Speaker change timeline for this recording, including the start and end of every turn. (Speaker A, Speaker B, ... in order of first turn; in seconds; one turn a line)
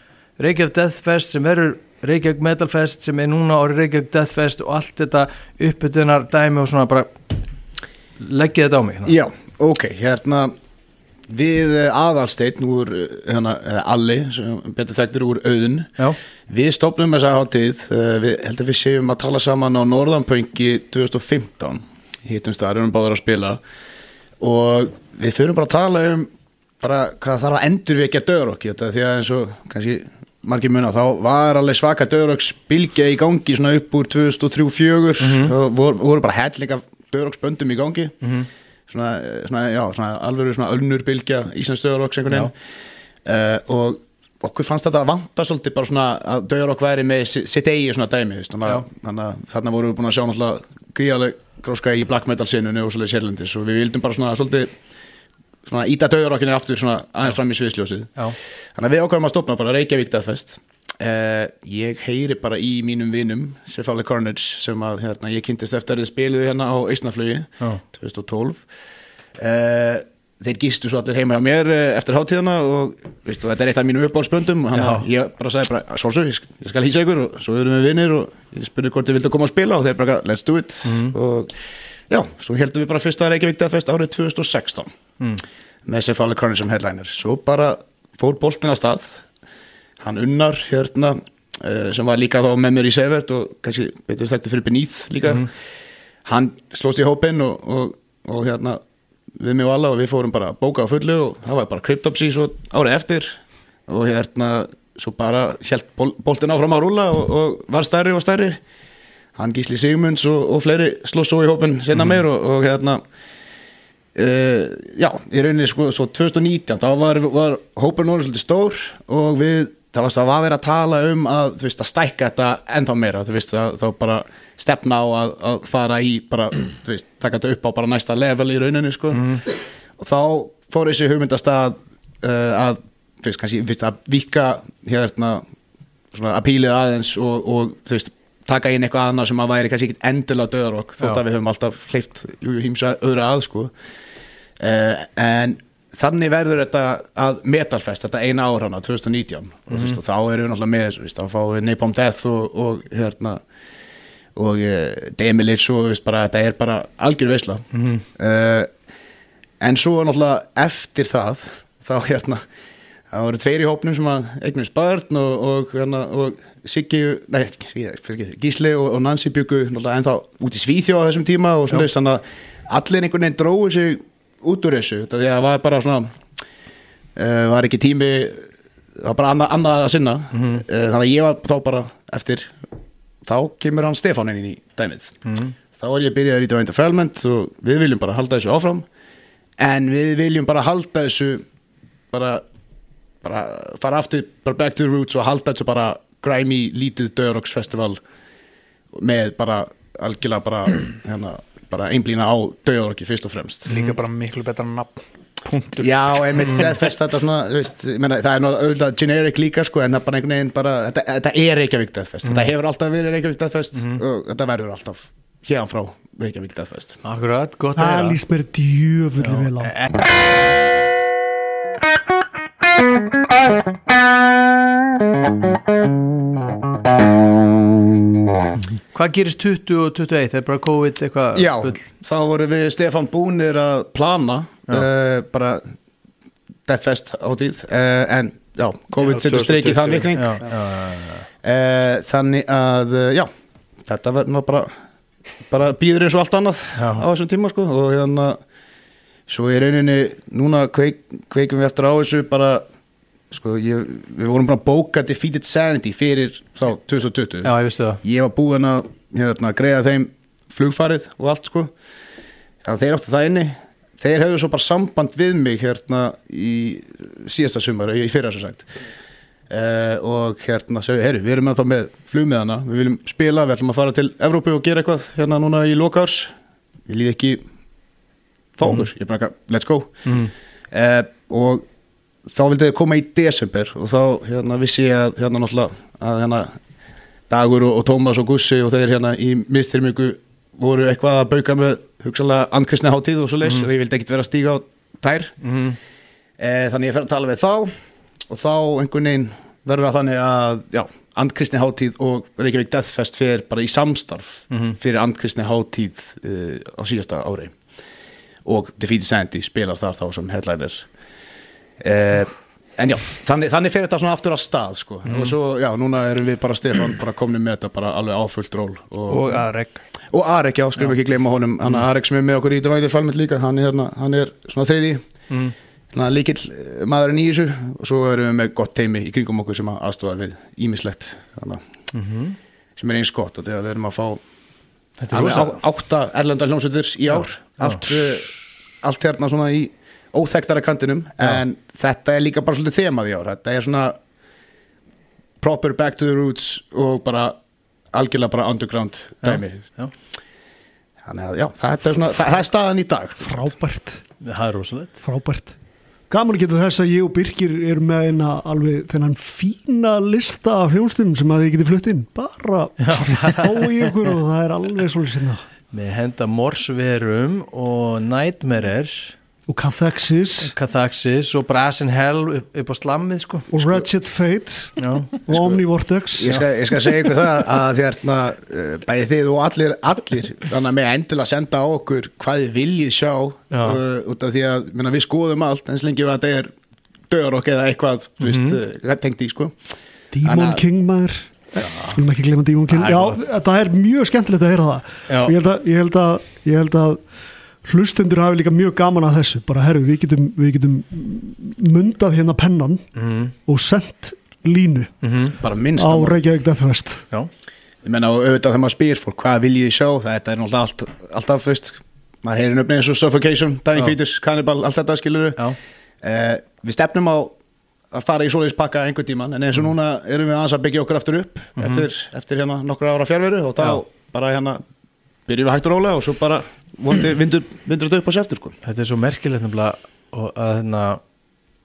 Speaker A: 0.4-7.1
Speaker A: 8.2-9.1
Speaker B: 9.0-10.5
Speaker B: 11.3-16.0
Speaker B: 16.5-23.6
Speaker B: 24.4-38.1
Speaker A: 35.2-35.5
Speaker A: 38.2-38.5
Speaker B: 38.9-42.5
Speaker B: 43.2-54.7
Speaker B: 55.6-58.2
Speaker B: 58.8-68.7
Speaker B: 69.4-81.5
Speaker A: 74.7-75.1
Speaker A: 80.8-81.1
Speaker B: 82.1-84.9
Speaker B: 85.8-89.2
Speaker B: 90.0-95.5
Speaker B: 96.2-98.8
Speaker B: 99.4-108.6
Speaker B: 109.3-113.0
Speaker B: 114.1-135.4
Speaker A: 129.1-129.4
Speaker B: 136.1-143.7
Speaker B: 144.6-153.4
Speaker A: 149.7-150.0
Speaker B: 154.3-158.7
Speaker A: 157.7-158.0
Speaker B: 159.6-162.4
Speaker B: 163.1-176.1
Speaker B: 177.2-182.6
Speaker A: 180.3-180.6
Speaker B: 183.2-185.2
Speaker A: 185.2-185.5
Speaker B: 185.7-188.8
Speaker B: 189.6-191.4
Speaker B: 192.1-192.4
Speaker B: 193.2-198.0
Speaker B: 198.9-203.7
Speaker C: 203.7-206.7
Speaker B: 205.8-217.0
Speaker A: 213.7-214.0
Speaker A: 217.0-218.2
Speaker D: 217.8-219.7
Speaker A: 219.2-219.5
Speaker A: 228.9-231.8
Speaker B: 231.3-235.7
Speaker B: 236.7-240.4
Speaker C: 239.0-240.2
Speaker A: 240.1-241.2
Speaker B: 241.4-243.3
Speaker B: 243.8-244.7
Speaker B: 245.5-248.4
Speaker A: 246.8-247.0
Speaker B: 249.3-252.6
Speaker B: 253.3-261.7
Speaker A: 257.4-258.0
Speaker B: 262.6-268.8
Speaker B: 269.5-276.3
Speaker B: 276.9-277.4
Speaker B: 278.6-280.1
Speaker A: 280.0-280.3
Speaker B: 280.7-281.6
Speaker B: 282.2-286.6
Speaker B: 287.3-295.4
Speaker A: 295.4-295.8
Speaker B: 296.4-297.7
Speaker B: 298.3-307.5
Speaker A: 304.5-304.8
Speaker B: 308.4-310.9
Speaker B: 311.8-319.4
Speaker A: 315.1-315.3
Speaker C: 319.1-319.9
Speaker B: 320.1-325.0
Speaker B: 325.9-331.6
Speaker A: 331.9-332.4
Speaker B: 332.8-334.2
Speaker A: 335.0-335.6
Speaker B: 335.1-344.0
Speaker A: 337.6-337.9
Speaker B: 345.4-347.4
Speaker B: 347.9-349.6
Speaker A: 349.2-349.9
Speaker B: 351.0-353.5
Speaker D: 353.2-354.0
Speaker A: 354.2-355.0
Speaker D: 355.0-355.6
Speaker D: 356.1-365.4
Speaker A: 362.8-363.7
Speaker A: 365.7-369.1
Speaker D: 369.5-370.5
Speaker A: 370.4-373.5
Speaker D: 373.5-376.4
Speaker A: 374.8-375.1
Speaker B: 375.3-375.6
Speaker B: 376.1-386.5
Speaker A: 383.5-383.8
Speaker B: 387.1-389.6
Speaker A: 388.2-388.6
Speaker D: 390.1-404.9
Speaker B: 390.2-390.6
Speaker A: 391.6-392.0
Speaker A: 392.7-393.2
Speaker A: 395.1-395.3
Speaker A: 402.9-403.3
Speaker A: 405.0-405.3
Speaker B: 405.3-406.2
Speaker D: 405.8-407.1
Speaker B: 407.8-415.4
Speaker B: 416.0-417.4
Speaker B: 417.9-424.6
Speaker A: 421.6-421.9
Speaker B: 425.3-428.6
Speaker A: 428.6-431.0